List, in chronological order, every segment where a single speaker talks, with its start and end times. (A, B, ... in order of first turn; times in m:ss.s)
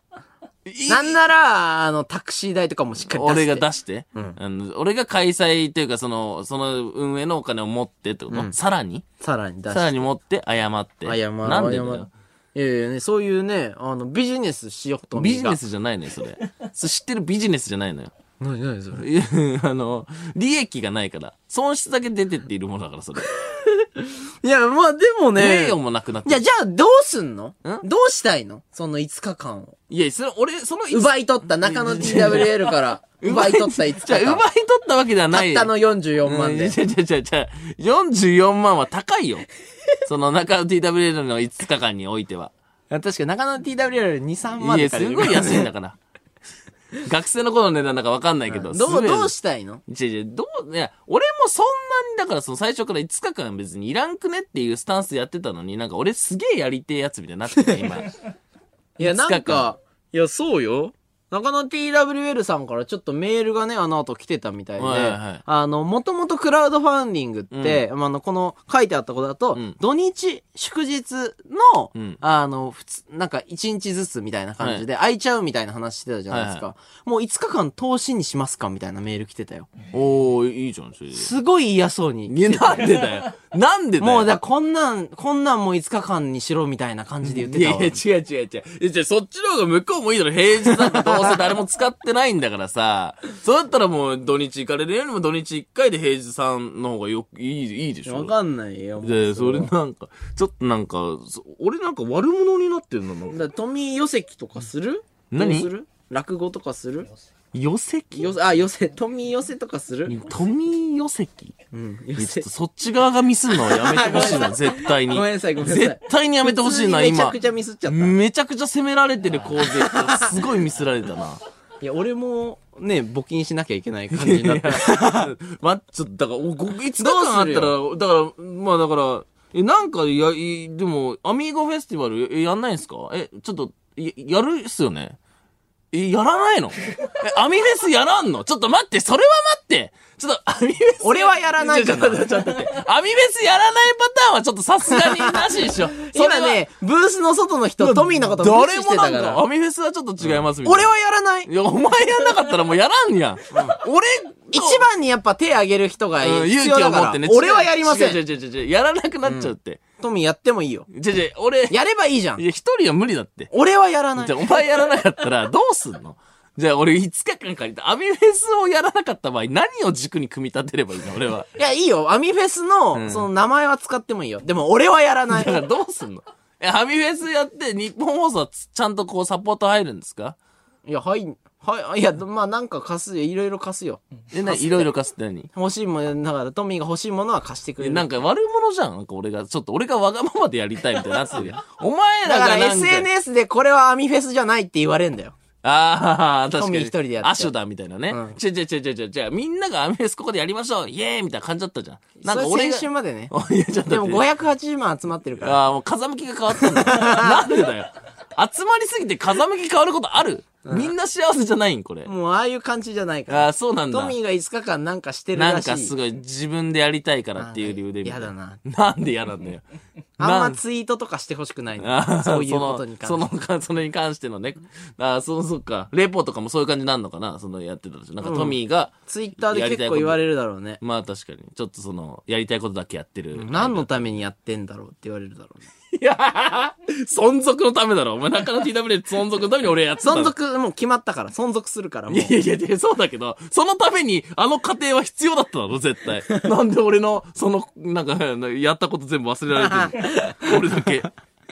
0:00.7-0:01.2 A
0:00.9-0:04.4 B
0:03.1-0:09.0 A
0:09.2-0:10.0 B
0:09.7-0:12.1 A
0:11.0-0:15.6 B
0:15.1-0:18.1 A
0:18.4-0:19.0 B
0:19.0-0:23.3 A
0:23.4-0:29.8 B
0:25.4-0:26.4 A
0:29.9-0:35.7 A
0:30.9-0:34.4 B
0:35.3-0:36.8 B
0:36.2-0:39.5 A
0:40.0-0:42.5 A
0:42.9-0:45.7 B
0:44.6-0:46.0 A
0:47.0-0:49.3 A
0:48.5-0:49.8 B
0:49.9-0:58.2 A
0:59.0-1:19.7 B
0:59.0-0:59.7 A
1:04.8-1:05.4 A
1:07.5-1:07.8 A
1:12.0-1:12.2 A
1:14.6-1:14.8 A
1:16.3-1:16.6 A
1:19.9-1:21.3 A
1:21.2-1:23.2 B
1:22.3-1:24.4 A
1:24.0-1:28.0 B
1:27.2-1:38.3 A
1:30.6-1:31.4 B
1:38.1-1:39.7 B
1:39.0-1:43.4 A
1:43.3-1:47.1 B
1:45.3-1:45.7 A
1:47.5-1:48.3 A
1:48.1-1:50.2 B
1:50.1-1:51.5 A
1:51.7-1:52.5 B
1:52.2-2:01.4 A
1:53.5-1:58.2 B
1:59.6-2:00.4 B
2:01.8-2:05.3 B
2:04.1-2:15.2 A
2:07.0-2:07.8 B
2:15.9-2:26.6 A
2:21.0-2:22.4 B
2:24.9-2:29.4 B
2:27.8-2:30.9 A
2:30.2-2:31.5 B
2:31.4-2:34.8 A
2:33.5-2:33.8 B
2:34.5-2:38.2 B
2:36.2-2:39.8 A
2:39.2-2:40.9 B
2:40.9-2:41.8 A
2:41.7-2:42.4 B
2:42.4-2:43.5 A
2:43.5-2:44.4 B
2:44.2-2:51.5 A
2:51.6-2:55.6 B
2:52.9-2:53.3 A
2:55.3-3:00.4 A
3:00.8-3:04.9 B
3:04.3-3:05.5 A
3:05.5-3:08.1 B
3:07.8-3:13.1 A
3:12.2-3:15.4 B
3:15.6-3:24.2 A
3:16.6-3:17.5 B
3:18.1-3:18.4 B
3:22.2-3:23.3 B
3:23.9-3:25.6 B
3:25.4-3:32.1 A
3:26.5-3:27.5 B
3:30.7-3:30.9 B
3:32.1-3:35.9 B
3:33.3-3:34.2 A
3:35.4-3:39.6 A
3:37.4-3:38.6 B
3:40.2-3:43.3 B
3:40.2-3:40.6 A
3:41.8-3:50.2 A
3:48.2-3:50.8 B
3:50.8-3:54.0 A
3:53.4-3:55.7 B
3:55.9-4:00.3 A
4:00.0-4:02.3 B
4:02.1-4:11.1 A
4:09.6-4:10.6 B